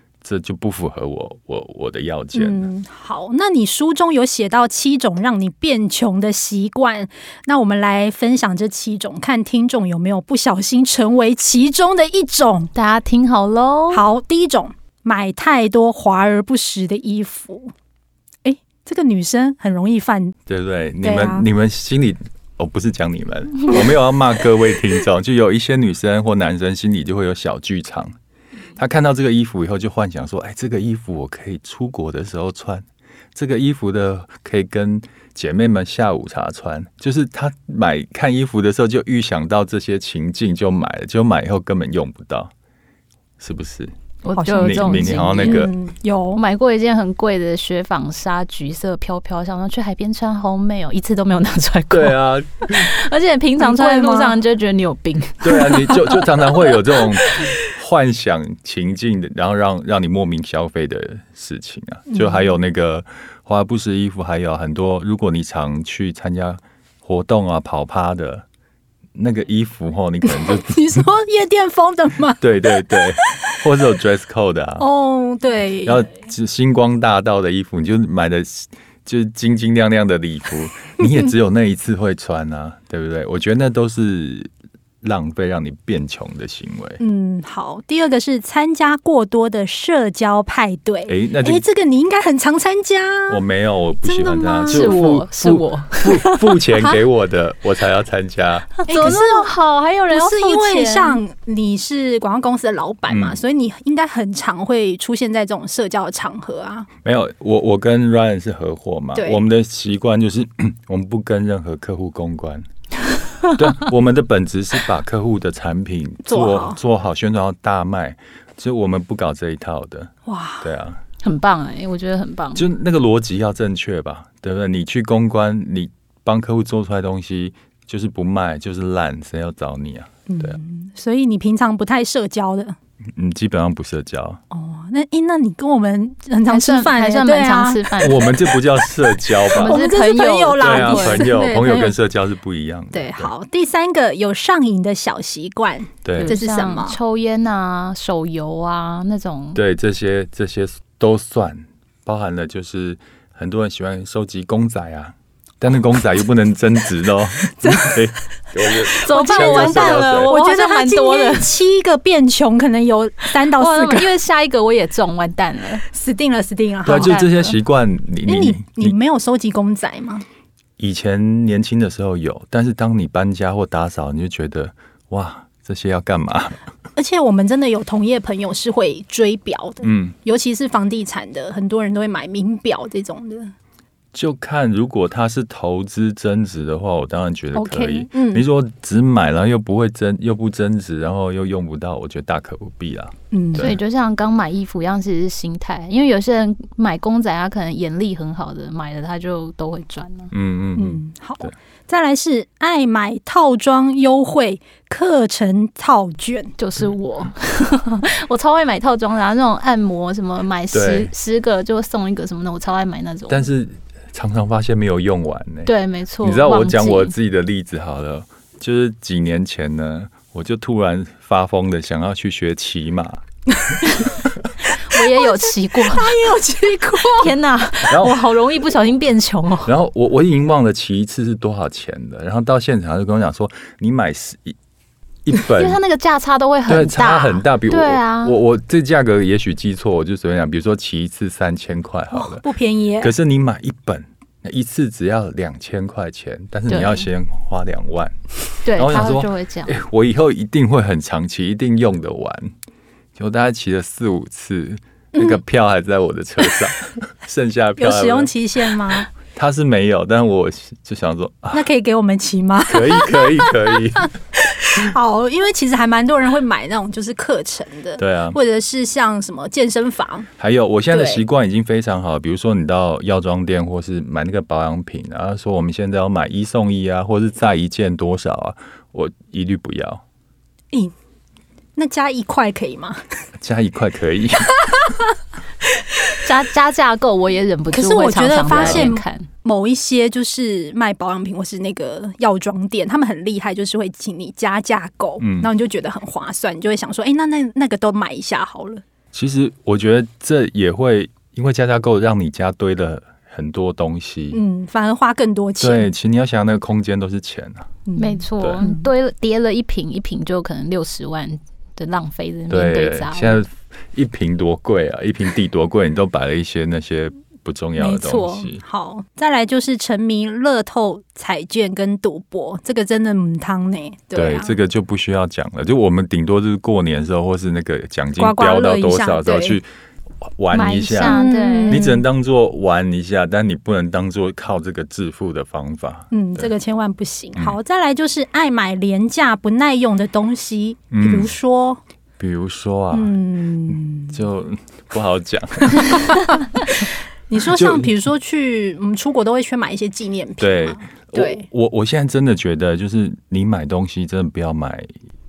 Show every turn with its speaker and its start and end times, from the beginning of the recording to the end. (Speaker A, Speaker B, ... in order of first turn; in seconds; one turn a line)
Speaker A: 0.2-2.7
Speaker B: 2.3-12.7
Speaker C: 12.7-14.1
Speaker B: 13.9-17.7
Speaker B: 18.4-20.4
Speaker A: 20.5-28.1
Speaker B: 21.0-21.5
Speaker A: 28.8-42.5
Speaker A: 43.4-43.9
Speaker C: 44.2-45.7
Speaker B: 44.3-46.4
Speaker A: 44.6-45.7
Speaker C: 46.4-56.2
Speaker A: 51.9-52.9
Speaker B: 53.6-54.4
Speaker A: 55.4-68.5
Speaker B: 62.1-62.5
Speaker A: 69.2-70.8
Speaker B: 70.2-73.0
Speaker A: 72.4-74.9
Speaker B: 74.8-76.1
Speaker A: 75.8-84.5
Speaker A: 85.0-87.0
Speaker B: 87.0-93.4
Speaker A: 91.1-91.6
Speaker A: 93.3-99.2
Speaker B: 94.0-95.0
Speaker C: 94.7-96.6
Speaker C: 98.8-101.2
Speaker B: 98.9-99.5
Speaker B: 100.1-106.9
Speaker A: 103.1-103.4
Speaker A: 107.0-112.7
Speaker B: 109.2-109.4
Speaker A: 113.6-121.0
Speaker B: 116.3-116.8
Speaker B: 120.3-120.7
Speaker C: 121.2-122.7
Speaker A: 122.5-130.6
Speaker B: 130.3-132.8
Speaker A: 133.2-134.4
Speaker B: 134.5-137.8
Speaker C: 136.5-138.4
Speaker A: 138.0-139.8
Speaker B: 139.5-141.9
Speaker C: 139.5-141.3
Speaker A: 140.6-143.3
Speaker B: 142.9-147.0
Speaker A: 146.0-146.4
Speaker C: 146.2-149.6
Speaker A: 149.6-160.3
Speaker B: 157.6-158.0
Speaker B: 158.9-164.1
Speaker C: 159.0-161.5
Speaker C: 163.6-165.8
Speaker B: 165.9-167.2
Speaker C: 166.8-167.6
Speaker A: 166.8-169.0
Speaker B: 168.3-170.2
Speaker A: 170.8-176.6
Speaker B: 177.0-183.5
Speaker A: 179.8-180.2
Speaker A: 184.1-193.8
Speaker B: 187.5-188.4
Speaker B: 193.3-193.8
Speaker C: 193.6-200.3
Speaker A: 200.3-201.5
Speaker B: 200.8-206.5
Speaker C: 206.6-213.5
Speaker A: 210.7-211.1
Speaker A: 213.3-223.2
Speaker C: 215.7-217.1
Speaker C: 224.9-226.1
Speaker B: 224.9-227.3
Speaker C: 227.0-229.7
Speaker A: 227.9-228.2
Speaker A: 229.7-234.6
Speaker A: 235.2-235.8
Speaker C: 235.5-238.4
Speaker A: 236.7-242.4
Speaker B: 242.1-243.1
Speaker A: 243.0-248.2
Speaker C: 246.7-247.1
Speaker C: 248.6-249.8
Speaker A: 248.7-252.5
Speaker A: 253.2-258.3
Speaker B: 255.2-255.4
Speaker B: 257.8-259.1
Speaker A: 259.3-261.7
Speaker B: 261.5-263.7
Speaker A: 262.7-264.1
Speaker B: 264.5-270.3
Speaker A: 268.0-268.4
Speaker A: 270.4-280.0
Speaker B: 270.9-271.2
Speaker B: 281.8-283.0
Speaker A: 283.4-284.7
Speaker C: 286.2-289.3
Speaker B: 287.7-298.8
Speaker A: 288.5-288.9
Speaker A: 295.2-295.5
Speaker A: 299.1-304.4
Speaker B: 304.3-305.9
Speaker A: 305.6-307.7
Speaker B: 307.9-308.9
Speaker C: 308.0-313.4
Speaker A: 308.4-308.6
Speaker A: 312.5-318.6
Speaker B: 317.8-324.6
Speaker A: 324.1-329.7
Speaker B: 328.2-329.6
Speaker A: 330.2-336.5
Speaker C: 330.5-331.8
Speaker B: 331.0-332.0
Speaker B: 336.1-341.8
Speaker A: 340.9-341.3
Speaker A: 342.2-346.2
Speaker B: 342.9-344.2
Speaker B: 347.3-351.5
Speaker A: 347.6-347.9
Speaker A: 350.4-354.9